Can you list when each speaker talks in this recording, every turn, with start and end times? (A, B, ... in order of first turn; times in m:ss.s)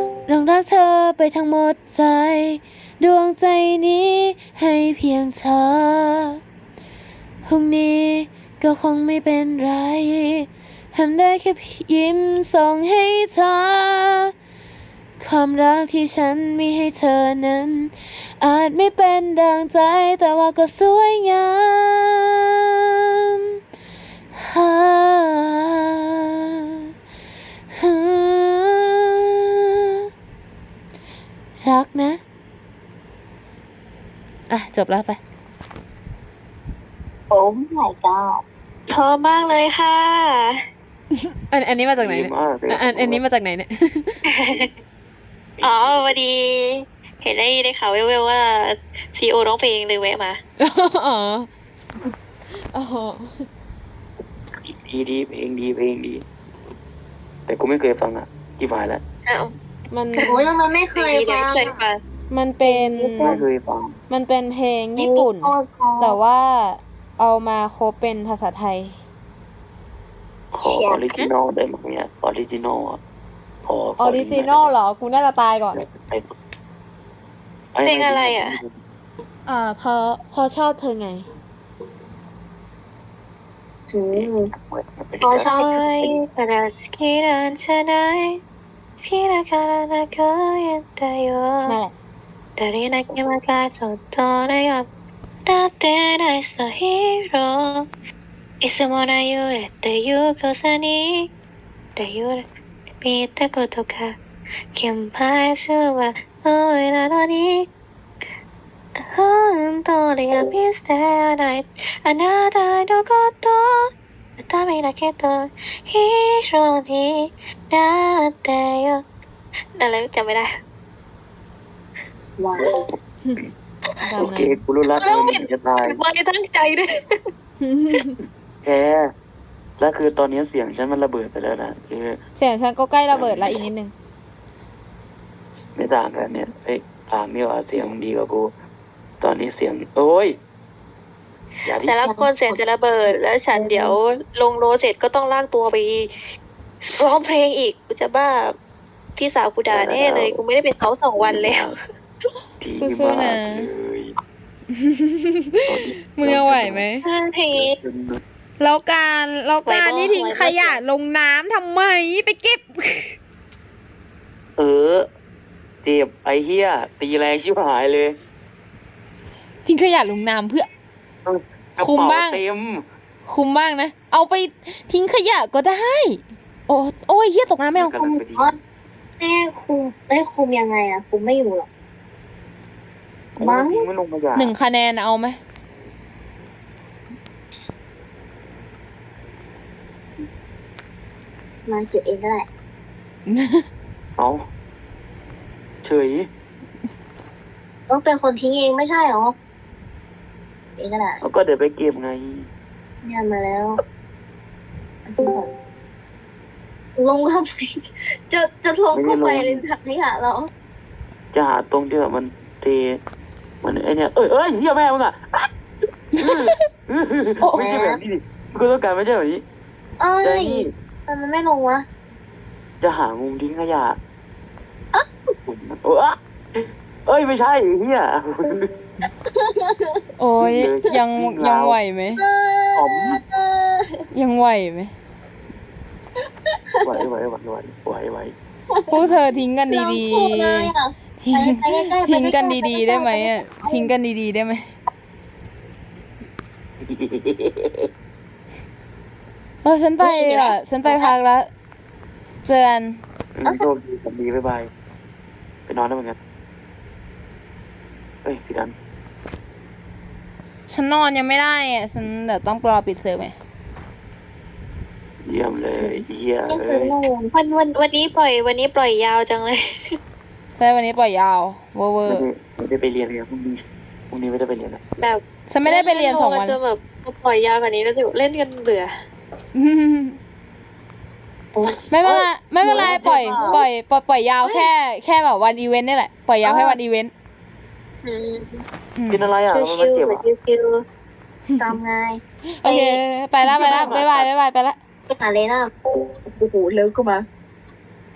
0:00.3-0:06.4 A
0:07.4-0:14.3 A
0:15.2-0:22.5 A
0:24.3-0:26.0 A
0:27.8-0:29.0 A
0:31.6-0:32.2 A
0:34.5-0:35.1 B
0:34.7-0:35.1 A
0:37.3-0:38.4 C
0:38.9-0:40.6 D
0:41.5-0:44.2 B
0:42.0-0:43.2 E
0:44.4-0:44.7 D
0:45.6-0:46.2 E
0:45.6-0:50.4 D
0:50.6-0:51.5 B
0:52.7-0:53.3 B
0:54.7-0:56.2 E
0:57.5-0:59.0 E
0:59.2-0:59.5 D
0:59.9-1:00.4 B
1:00.3-1:01.8 C
1:00.9-1:02.0 D
1:02.3-1:03.4 B
1:02.6-1:03.4 C
1:03.2-1:04.0 E
1:04.1-1:09.0 B
1:05.0-1:06.2 C
1:10.5-1:13.0 E
1:10.6-1:11.0 C
1:13.6-1:14.7 E
1:14.0-1:15.8 B
1:15.7-1:16.2 E
1:17.7-1:18.8 E
1:17.8-1:18.6 D
1:19.5-1:21.2 B
1:23.9-1:24.5 C
1:24.1-1:26.1 E
1:25.2-1:25.8 C
1:25.5-1:28.4 D
1:29.0-1:31.8 D
1:32.6-1:34.9 D
1:35.4-1:37.9 D
1:38.6-1:41.3 D
1:42.0-1:42.4 D
1:43.0-1:44.1 D
1:44.8-1:47.7 D
1:49.0-1:53.9 D
1:54.4-1:59.0 D
1:59.8-2:00.5 D
2:02.4-2:02.8 C
2:04.0-2:04.5 B
2:04.2-2:06.0 E
2:04.9-2:06.9 D
2:07.6-2:08.1 B
2:08.6-2:09.1 E
2:09.8-2:12.2 E
2:12.4-2:13.9 B
2:13.1-2:13.6 E
2:15.8-2:18.5 E
2:19.2-2:20.4 E
2:21.6-2:22.2 E
2:21.8-2:26.1 D
2:22.2-2:22.6 C
2:23.5-2:24.0 C
2:26.9-2:28.6 D
2:29.2-2:31.7 D
2:29.7-2:30.4 E
2:31.2-2:31.7 E
2:32.6-2:34.1 E
2:32.7-2:33.7 B
2:34.8-2:37.0 B
2:35.7-2:36.8 E
2:37.0-2:37.8 D
2:37.5-2:38.2 E
2:38.6-2:43.2 B
2:39.6-2:40.8 D
2:44.6-2:45.1 E
2:45.8-2:48.2 E
2:49.6-2:50.7 B
2:51.2-2:52.8 E
2:51.8-2:52.4 B
2:53.2-2:58.0 B
2:57.7-2:58.5 E
2:58.0-2:58.6 C
2:59.2-3:01.7 C
3:03.4-3:04.5 E
3:03.4-3:03.9 C
3:04.4-3:05.4 B
3:11.7-3:12.5 C
3:13.3-3:13.6 B
3:15.8-3:16.3 E
3:17.9-3:19.3 C
3:20.8-3:21.2 C
3:21.2-3:22.5 E
3:23.0-3:23.8 C
3:25.1-3:25.5 C
3:27.0-3:30.5 C
3:28.9-3:29.6 E
3:31.3-3:33.0 E
3:33.6-3:35.5 E
3:36.2-3:39.4 E
3:37.5-3:38.0 C
3:40.0-3:41.8 C
3:40.2-3:40.7 E
3:42.8-3:44.0 E
3:45.4-3:48.7 E
3:49.3-3:50.0 C
3:50.2-3:52.2 B
3:50.4-3:51.8 E
3:52.1-3:54.0 C
3:52.8-3:53.2 E
3:54.1-3:54.9 B
3:56.8-3:57.0 C
3:56.8-3:58.3 E
3:58.7-4:03.9 C
3:58.9-4:04.6 B
4:06.8-4:07.9 E
4:09.6-4:11.4 B
4:10.0-4:11.1 C
4:12.4-4:13.0 B
4:13.4-4:14.7 E
4:15.7-4:16.2 E
4:18.2-4:18.7 E
4:20.7-4:23.3 B
4:25.2-4:27.0 E
4:26.5-4:27.3 C
4:27.3-4:29.6 D
4:30.6-4:32.2 B
4:32.0-4:34.8 E
4:35.0-4:38.9 D
4:35.5-4:36.6 B
4:39.5-4:40.2 B
4:41.6-4:43.6 C
4:41.9-4:47.1 B
4:48.0-4:48.6 D
4:49.0-4:49.3 B
4:49.1-4:50.2 E
4:49.5-4:50.8 D
4:51.6-4:53.0 C
4:52.6-4:54.8 B
4:53.4-4:54.3 E
4:55.1-4:57.2 C